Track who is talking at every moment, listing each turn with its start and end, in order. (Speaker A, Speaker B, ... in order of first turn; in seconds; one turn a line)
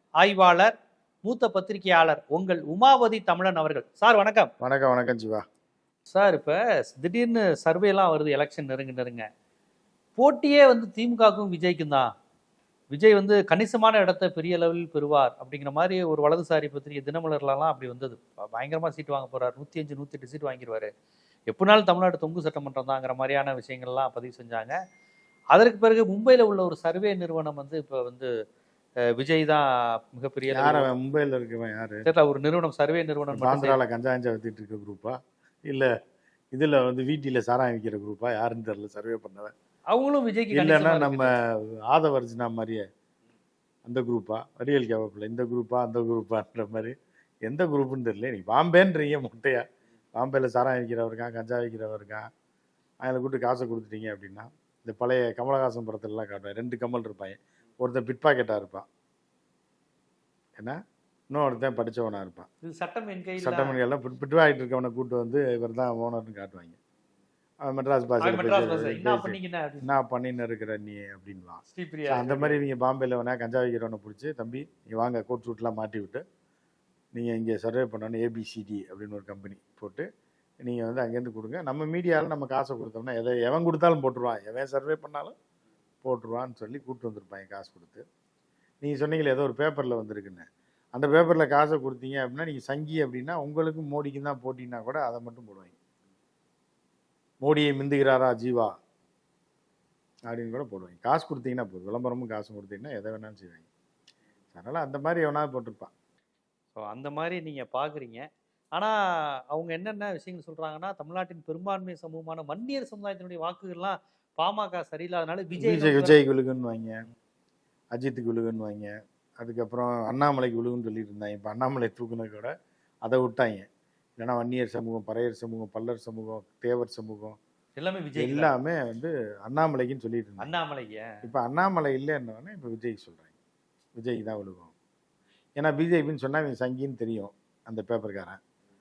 Speaker A: 0.2-0.7
Speaker A: 1.2-4.5
Speaker B: 4.6-5.4
Speaker A: 6.1-9.3
Speaker A: 10.2-12.1
Speaker A: 12.9-20.9
Speaker A: 21.5-24.8
Speaker A: 25.5-28.3
Speaker A: 29.2-30.9
Speaker B: 30.5-32.1
Speaker A: 32.1-33.8
Speaker B: 33.3-35.9
Speaker B: 36.5-39.5
Speaker A: 39.9-41.3
Speaker B: 40.5-41.3
Speaker B: 41.9-42.9
Speaker B: 43.9-46.9
Speaker B: 47.5-49.6
Speaker B: 50.2-52.2
Speaker B: 53.0-58.9
Speaker B: 61.3-62.5
Speaker A: 62.6-63.8
Speaker B: 63.4-66.8
Speaker B: 67.7-76.2
Speaker A: 68.2-69.9
Speaker A: 71.7-72.6
Speaker B: 77.1-80.0
Speaker B: 80.6-85.3
Speaker B: 86.0-88.0
Speaker B: 88.8-95.7
Speaker B: 97.4-98.7
Speaker B: 100.3-103.7
Speaker B: 104.5-105.9
Speaker A: 106.8-109.0
Speaker A: 109.5-116.2
Speaker B: 115.6-117.0
Speaker B: 117.9-122.5
Speaker B: 123.0-123.7
Speaker B: 124.2-127.4
Speaker A: 127.8-128.5
Speaker B: 128.2-130.5
Speaker A: 130.4-131.1
Speaker B: 131.2-133.3
Speaker B: 134.0-134.7
Speaker B: 135.6-138.4